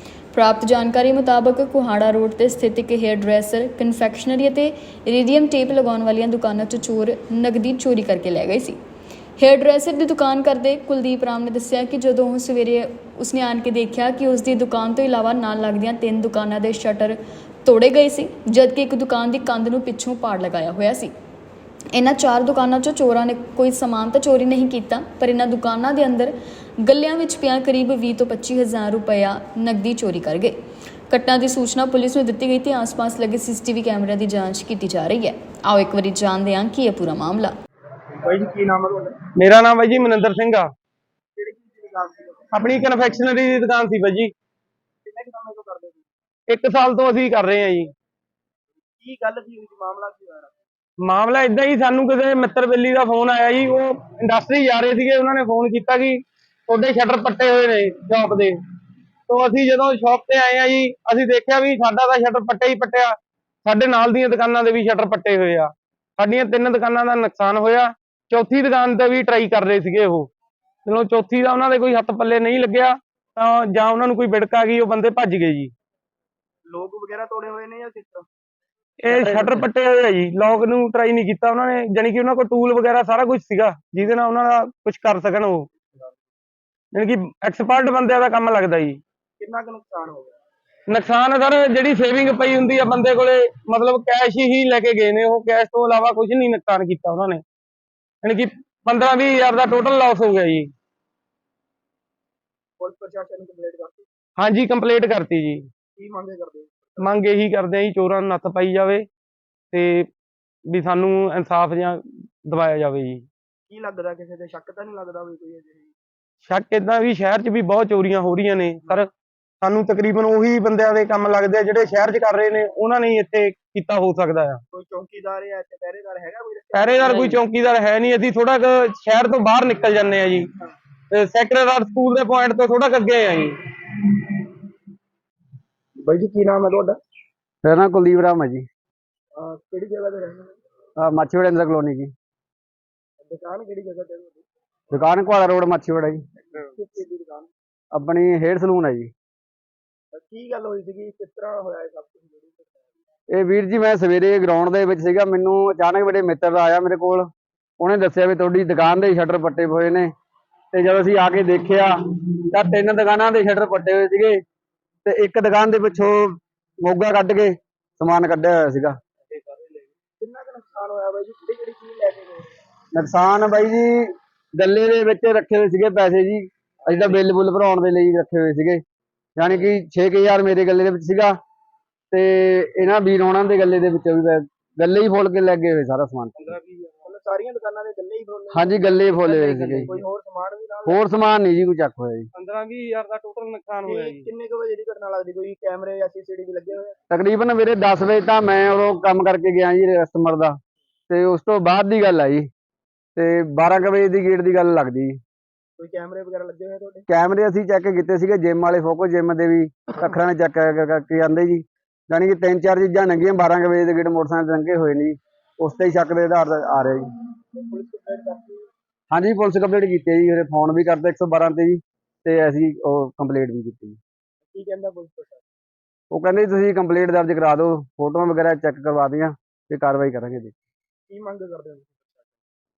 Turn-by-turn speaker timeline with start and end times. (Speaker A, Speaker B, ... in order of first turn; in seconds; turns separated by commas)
Speaker A: 0.3-8.8, Speaker A: 9.4-21.1, Speaker A: 21.9-30.6, Speaker A: 31.1-37.5, Speaker B: 38.2-39.2, Speaker C: 39.4-40.7, Speaker B: 41.4-42.5, Speaker C: 42.5-44.3, Speaker B: 45.0-46.0, Speaker C: 46.5-47.9, Speaker B: 49.0-50.6, Speaker C: 51.0-58.6, Speaker C: 59.3-63.1, Speaker C: 63.6-70.3, Speaker C: 70.8-75.7, Speaker B: 76.7-78.3, Speaker C: 79.0-85.7, Speaker B: 79.1-79.7, Speaker C: 87.0-89.0, Speaker B: 89.4-90.4, Speaker C: 90.9-97.4, Speaker C: 98.2-100.7, Speaker B: 102.8-104.1, Speaker C: 104.4-105.7, Speaker B: 106.0-107.1, Speaker C: 107.0-109.1, Speaker C: 109.7-110.1, Speaker C: 110.7-113.3, Speaker B: 113.7-115.9, Speaker C: 116.5-119.1, Speaker C: 119.6-124.6, Speaker B: 124.7-127.4, Speaker C: 126.7-130.5, Speaker C: 131.1-133.6, Speaker B: 136.0-137.0, Speaker D: 137.6-138.7, Speaker B: 139.4-140.5, Speaker D: 141.0-142.1, Speaker B: 143.2-144.4, Speaker D: 144.9-146.2, Speaker B: 146.6-147.5, Speaker D: 147.9-149.1, Speaker B: 150.1-152.9, Speaker D: 153.3-157.3, Speaker D: 157.8-160.1, Speaker D: 160.7-161.9, Speaker D: 162.5-164.4, Speaker D: 165.1-169.0, Speaker C: 169.3-169.8, Speaker B: 170.2-172.5, Speaker D: 172.9-178.8, Speaker D: 179.4-181.3, Speaker D: 182.1-186.3, Speaker C: 186.4-187.1, Speaker B: 187.1-191.0, Speaker D: 188.5-189.9, Speaker C: 189.3-189.9, Speaker D: 190.9-192.3, Speaker C: 192.3-194.3, Speaker B: 193.8-197.0, Speaker D: 197.1-200.6, Speaker D: 201.1-202.5, Speaker D: 203.2-205.2, Speaker B: 205.8-207.1, Speaker D: 207.1-217.1, Speaker B: 217.6-218.7, Speaker D: 219.1-224.0, Speaker B: 224.5-225.4, Speaker D: 226.1-230.6, Speaker B: 231.1-232.3